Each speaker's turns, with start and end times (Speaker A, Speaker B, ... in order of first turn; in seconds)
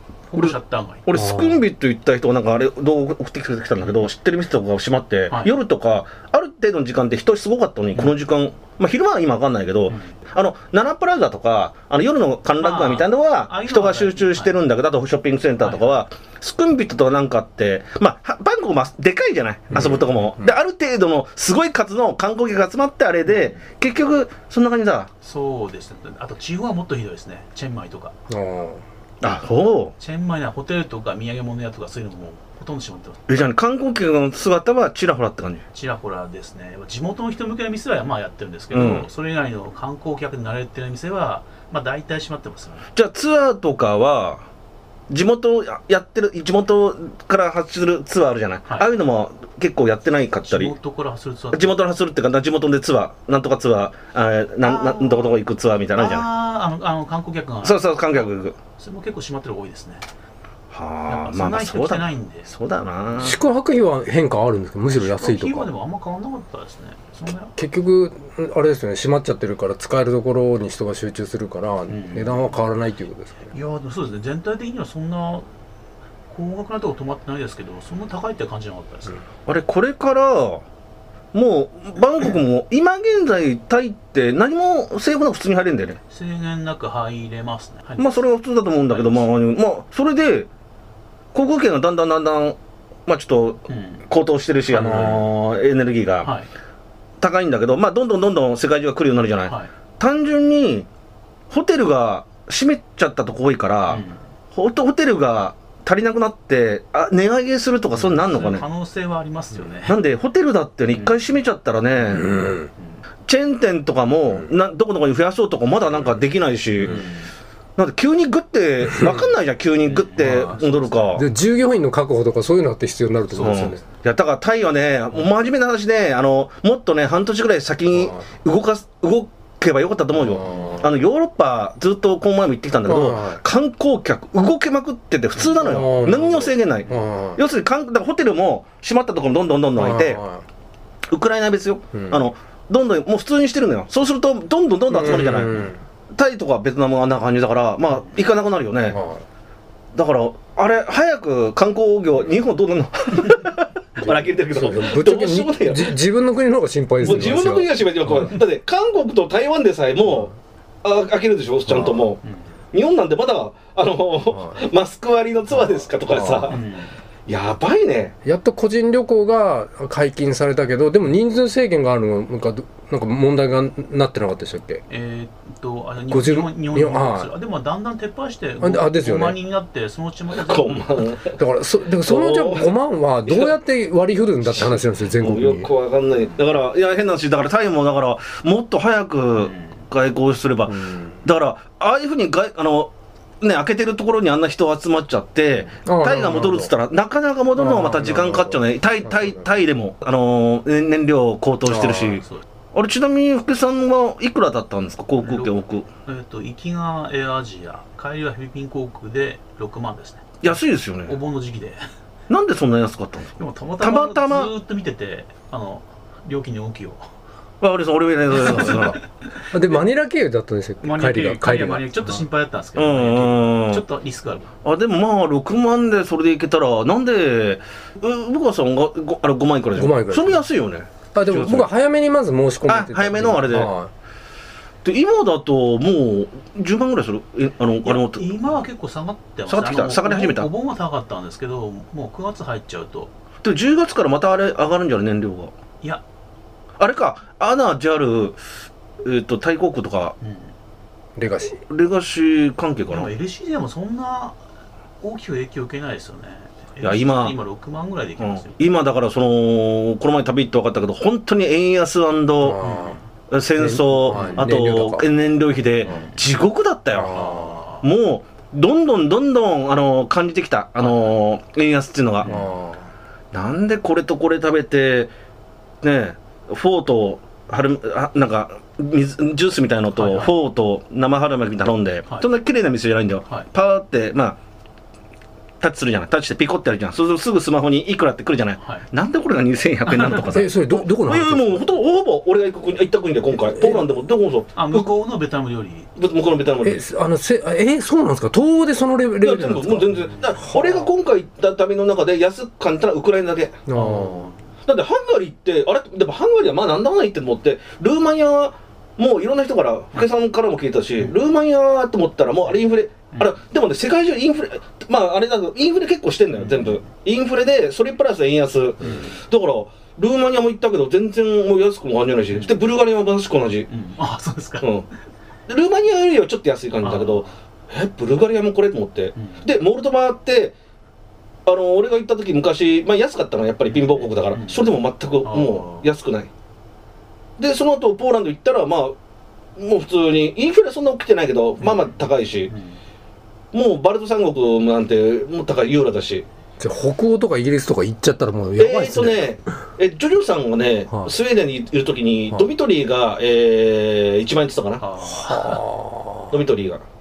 Speaker A: 0.3-1.1, 5.3-5.5, 9.9-10.1, 12.6-14.6, 15.6-15.9, 23.3-23.6, 25.2-28.1, 30.0-33.4, 35.7-42.9, 50.5-51.8, 54.6-55.4, 55.9-60.0, 61.1-62.5, 64.9-67.5, 71.9-72.5, 73.5-75.5, 76.3-79.2, 86.1-88.2, 88.9-89.2, 93.7-94.0, 94.7-95.2, 96.2-96.5, 99.5-99.7, 103.9-104.2, 108.0-110.0, 116.8-117.3, 119.8-121.2, 166.5-166.9, 174.9-180.8, 189.4-189.8, 202.2-202.4, 205.2-210.5, 211.1-211.8, 213.4-217.0, 218.4-219.4, 220.8-224.5, 237.8-243.1, 250.2-250.5, 252.9-254.4, 255.0-258.6, 262.6-263.0, 264.1-264.4, 265.8-266.2, 267.1-267.9, 270.8-271.1, 272.2-272.5, 279.9-280.3, 289.9-290.2, 294.5-295.9, 300.1-300.8, 303.8-304.3, 316.4-316.8, 323.7-324.7, 326.8-327.3, 329.1-329.4, 333.7-334.7, 335.2-335.9, 341.6-341.9, 342.5-342.8, 354.8-355.6
Speaker B: 0.3-25.1, 29.2-29.9, 33.3-35.6, 38.7-39.1, 42.9-44.4, 45.1-50.7, 51.5-56.3, 57.6-58.5, 60.7-63.4, 79.5-80.6, 81.3-86.0, 88.0-90.5, 91.3-96.3, 97.2-100.9, 101.5-104.0, 104.5-108.6, 109.8-112.4, 113.3-117.1, 117.8-121.2, 123.3-140.2, 141.1-149.0, 149.9-155.9, 157.0-160.3, 160.8-162.2, 162.7-166.6, 167.3-168.1, 180.3-181.4, 182.0-182.7, 183.3-183.5, 184.6-202.2, 202.7-205.9, 210.4-211.2, 212.3-214.5, 217.6-219.0, 222.8-223.8, 224.6-231.7, 232.7-233.7, 234.8-238.4, 239.5-240.5, 243.4-245.5, 246.8-248.4, 249.0-250.1, 251.7-253.1, 256.8-257.4, 258.2-262.6, 263.3-267.2, 267.8-272.3, 273.3-275.1, 275.8-284.4, 285.6-294.9, 296.0-296.8, 299.2-303.6, 304.6-323.7, 325.5-330.5, 331.4-336.3, 337.4-338.9, 339.6-342.5, 343.5-346.2, 348.6-354.8, 356.3-356.8
Speaker C: 1.1-1.6, 19.7-20.5, 28.3-28.8, 63.2-65.7, 67.5-73.5, 112.1-112.7, 118.9-119.3, 121.2-123.8, 130.2-130.9, 132.8-133.4, 135.4-137.4, 139.8-140.4, 141.9-142.2, 144.9-145.8, 148.9-149.2, 154.0-157.7, 161.7-162.0, 164.3-164.6, 166.1-166.5, 168.2-174.8, 176.1-177.3, 178.6-179.4, 181.3-185.7, 190.7-191.2, 195.8-196.7, 197.6-199.4, 201.7-202.2, 218.4-218.9, 219.5-222.1, 229.7-230.4, 231.1-233.9, 251.2-251.6, 262.4-263.0, 263.6-265.1, 266.9-267.6, 272.2-272.9, 290.2-291.6, 293.6-293.8, 296.6-300.0, 303.7-304.3, 346.6-349.2, 355.0-356.4